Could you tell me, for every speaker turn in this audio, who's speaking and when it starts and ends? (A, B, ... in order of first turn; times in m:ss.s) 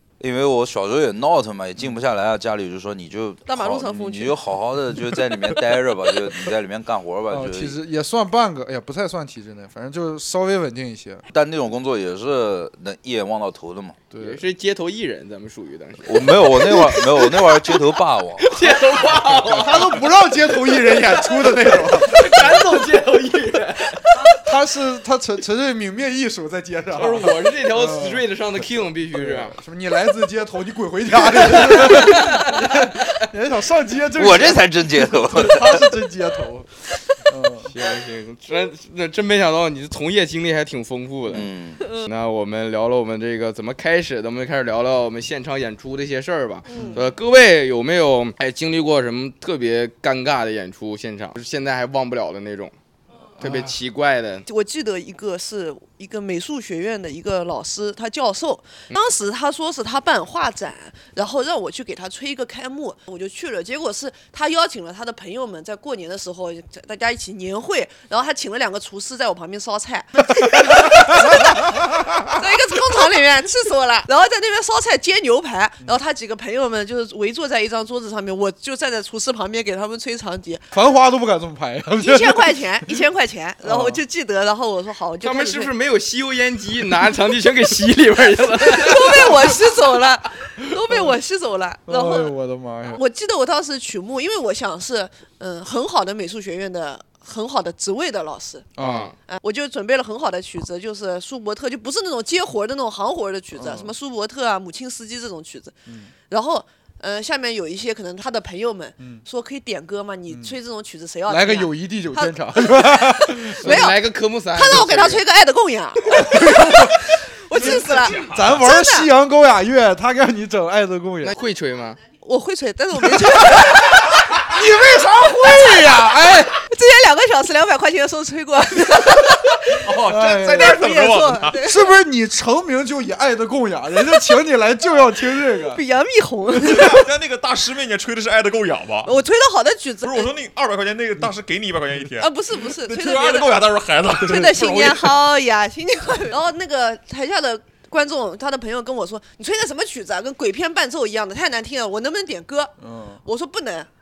0:00.2-0:07.8 A
0:03.5-0:04.4 B
0:07.3-0:11.2 C
0:11.3-0:14.0 A
0:14.1-0:14.4 C
0:14.2-0:17.7 D
0:16.0-0:18.6 A
0:18.4-0:20.0 D
0:19.4-0:22.8 C
0:21.3-0:24.1 D
0:24.2-0:28.2 C
0:26.9-0:29.6 D
0:29.1-0:36.7 C
0:34.1-0:36.0 A
0:37.2-0:37.7 C
0:37.7-0:41.5 D
0:41.3-0:41.8 A
0:41.8-0:42.1 B
0:42.0-0:52.7 D
0:46.7-0:47.0 B
0:46.7-0:47.0 C
0:53.4-0:54.4 D
0:53.4-0:53.7 C
0:54.5-1:20.6 B
1:10.4-1:12.4 C
1:20.7-1:23.0 C
1:22.0-1:25.7 B
1:23.6-1:24.0 C
1:25.2-1:29.2 D
1:28.7-1:32.3 B
1:31.9-1:33.0 C
1:32.9-1:38.7 B
1:38.8-1:39.1 C
1:38.8-1:39.1 D
1:39.2-1:45.7 B
1:43.5-1:43.9 C
1:46.3-1:59.1 B
1:50.3-1:50.6 C
1:51.3-1:53.8 C
1:53.6-1:55.2 D
1:56.1-1:57.0 C
1:57.5-2:01.3 C
2:01.2-2:02.0 D
2:02.2-2:04.2 B
2:03.0-2:03.8 C
2:04.4-2:06.6 C
2:05.5-2:05.7 B
2:06.6-2:09.8 B
2:09.8-2:11.6 E
2:10.0-2:10.8 C
2:10.5-2:11.9 B
2:11.6-2:15.8 C
2:15.7-2:17.0 B
2:16.6-2:19.1 E
2:19.0-2:20.3 B
2:20.0-2:25.2 E
2:22.2-2:23.6 B
2:24.2-2:32.7 B
2:32.8-2:33.2 C
2:33.2-2:33.9 B